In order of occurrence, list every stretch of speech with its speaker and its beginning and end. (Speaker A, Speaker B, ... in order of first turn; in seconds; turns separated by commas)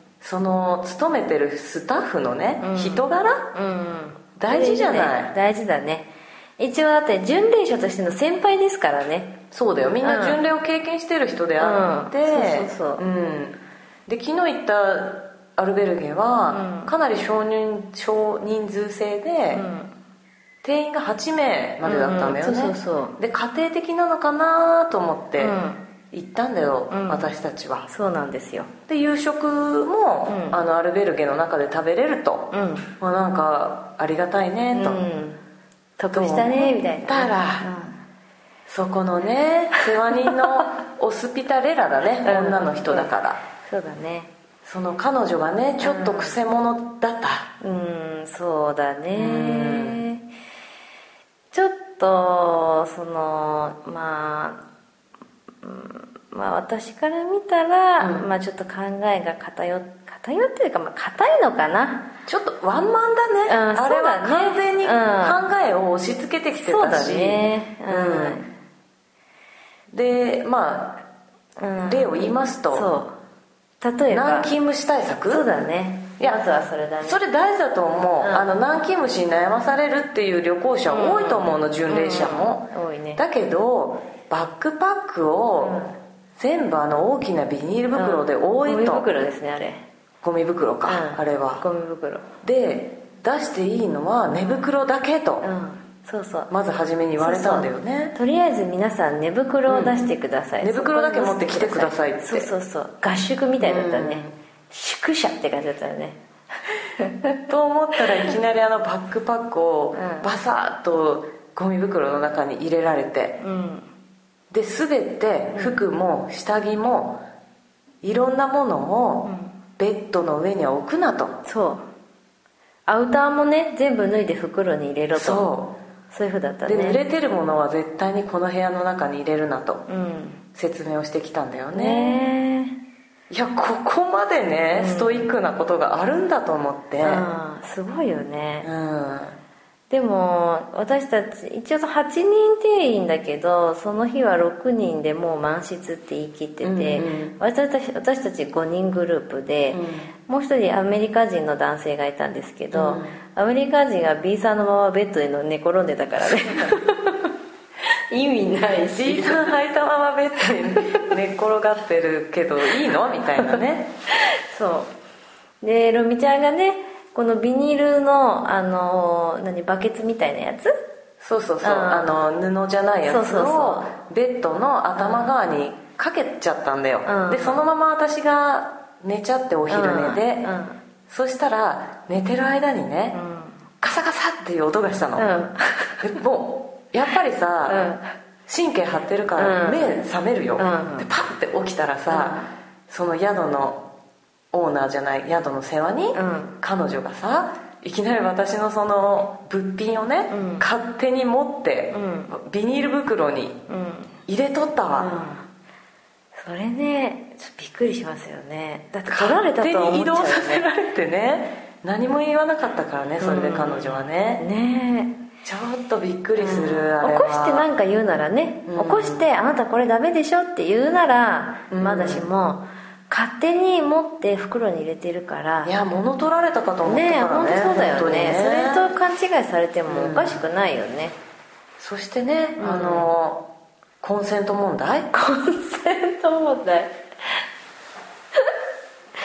Speaker A: 0.2-3.5, Speaker B: 2.6-9.4, Speaker A: 4.4-5.3, Speaker A: 9.5-19.6, Speaker B: 10.0-10.4, Speaker B: 11.6-13.1, Speaker B: 16.5-16.9, Speaker B: 19.5-19.9, Speaker A: 20.6-25.6, Speaker B: 21.8-23.2, Speaker B: 25.4-25.8, Speaker A: 26.1-27.9, Speaker B: 26.9-27.3, Speaker B: 27.9-28.7, Speaker A: 28.9-35.0, Speaker B: 30.3-30.6, Speaker B: 32.5-32.9, Speaker B: 34.7-35.4, Speaker B: 36.0-38.0, Speaker A: 36.1-37.7, Speaker A: 38.7-43.4, Speaker B: 42.2-43.1, Speaker B: 43.6-44.3, Speaker A: 44.6-47.5, Speaker B: 45.8-46.4, Speaker B: 47.6-50.2, Speaker A: 49.1-50.0, Speaker B: 51.5-54.6, Speaker B: 55.6-62.1, Speaker A: 58.0-58.3, Speaker A: 62.3-68.5, Speaker B: 63.5-65.4, Speaker B: 66.5-68.5, Speaker A: 69.9-71.0, Speaker B: 71.6-73.2, Speaker A: 71.9-72.9, Speaker B: 73.8-74.5, Speaker A: 74.1-75.5, Speaker B: 75.3-77.2, Speaker A: 76.2-76.4, Speaker A: 77.0-85.8, Speaker B: 78.2-78.5, Speaker B: 80.9-83.2, Speaker B: 85.6-86.0, Speaker A: 86.4-89.1, Speaker B: 87.9-89.8, Speaker A: 90.2-91.6, Speaker B: 90.8-92.2, Speaker A: 92.4-95.5, Speaker B: 94.3-94.7, Speaker B: 95.4-96.5, Speaker A: 96.5-98.1, Speaker B: 97.2-106.2, Speaker A: 99.7-100.0, Speaker A: 100.6-102.5, Speaker A: 103.6-104.3, Speaker B: 107.0-107.4, Speaker A: 107.5-113.4, Speaker B: 110.0-110.3, Speaker B: 113.4-113.9, Speaker A: 114.5-117.2, Speaker B: 115.5-115.8, Speaker A: 118.0-121.4, Speaker B: 119.2-119.6, Speaker B: 121.5-121.8, Speaker B: 122.9-125.5, Speaker A: 125.1-125.8, Speaker B: 126.1-127.0, Speaker A: 126.7-129.9, Speaker B: 129.9-130.4, Speaker A: 130.6-132.2, Speaker B: 131.7-132.8, Speaker A: 133.3-137.3, Speaker B: 134.7-135.3, Speaker B: 137.0-138.7, Speaker A: 138.6-139.4, Speaker B: 139.9-157.3, Speaker A: 146.6-147.3, Speaker A: 149.7-150.1, Speaker A: 152.7-153.2, Speaker A: 156.2-156.8, Speaker B: 158.1-159.5, Speaker A: 158.9-163.9, Speaker B: 164.1-164.9, Speaker B: 165.6-170.8, Speaker A: 171.2-180.5, Speaker B: 171.6-172.2, Speaker B: 173.1-173.9, Speaker B: 175.0-175.3, Speaker B: 177.1-177.6, Speaker B: 179.7-180.8, Speaker A: 181.1-183.2, Speaker B: 183.1-183.7, Speaker A: 183.8-185.3, Speaker B: 185.2-186.1, Speaker A: 186.0-187.9, Speaker B: 187.7-188.1, Speaker A: 188.5-193.8, Speaker B: 189.4-190.0, Speaker B: 190.6-191.1, Speaker B: 192.1-192.5, Speaker A: 194.5-203.6, Speaker B: 196.2-196.6, Speaker B: 200.3-200.7, Speaker B: 201.9-202.3, Speaker B: 203.7-204.2, Speaker A: 204.3-205.2, Speaker B: 205.0-205.5, Speaker B: 206.4-210.7, Speaker A: 209.1-214.4, Speaker B: 213.2-215.2, Speaker A: 215.4-217.7, Speaker B: 216.4-225.7, Speaker A: 218.7-219.2, Speaker A: 221.7-222.3, Speaker A: 225.6-228.9, Speaker B: 226.8-231.2, Speaker A: 229.9-230.4, Speaker A: 231.8-233.5, Speaker B: 232.6-233.1, Speaker A: 234.0-235.1, Speaker B: 235.1-237.4